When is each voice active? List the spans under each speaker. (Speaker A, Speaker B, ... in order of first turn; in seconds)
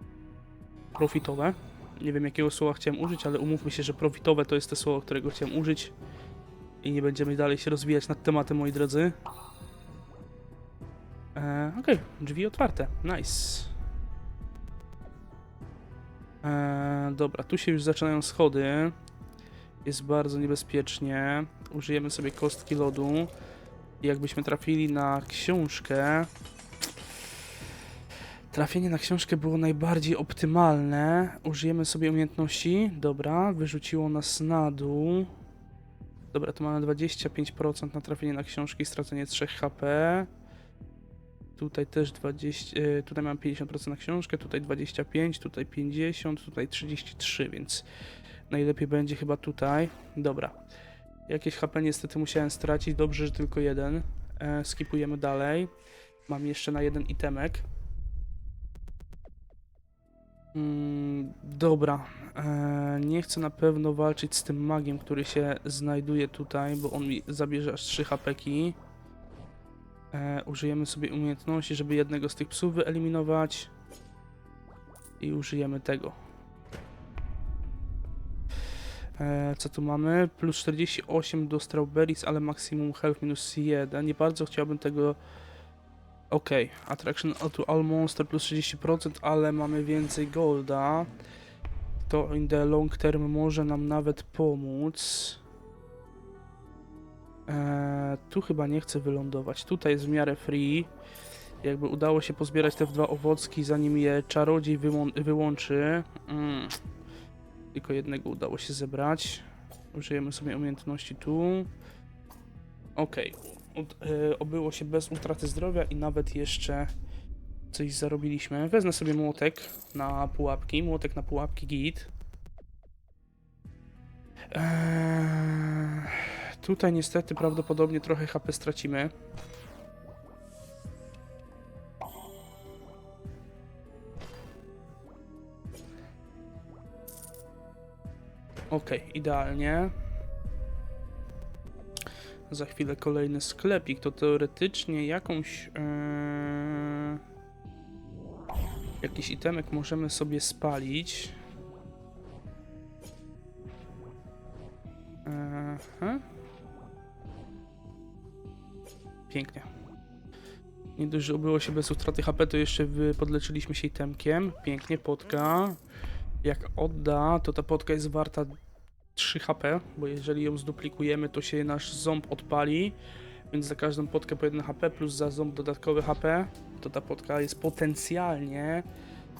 Speaker A: 1.0-5.9, 6.8-9.2, 11.3-13.7, 16.4-18.9, 19.8-23.3, 24.0-26.3, 28.5-35.3, 36.3-40.3, 41.6-47.9, 48.5-50.6, 51.3-55.7, 56.3-57.6, 60.5-68.8, 70.1-73.7, 75.2-76.2, 79.2-85.2, 86.3-91.1, 92.0-95.4, 97.5-100.9, 101.6-106.8, 107.7-111.7, 113.0-116.9, 117.7-122.1, 124.5-129.1, 138.7-139.9, 142.5-147.2, 149.0-151.4, 155.2-156.2, 159.3-159.7, 161.0-165.8, 166.4-168.5, 169.2-173.0, 173.5-178.9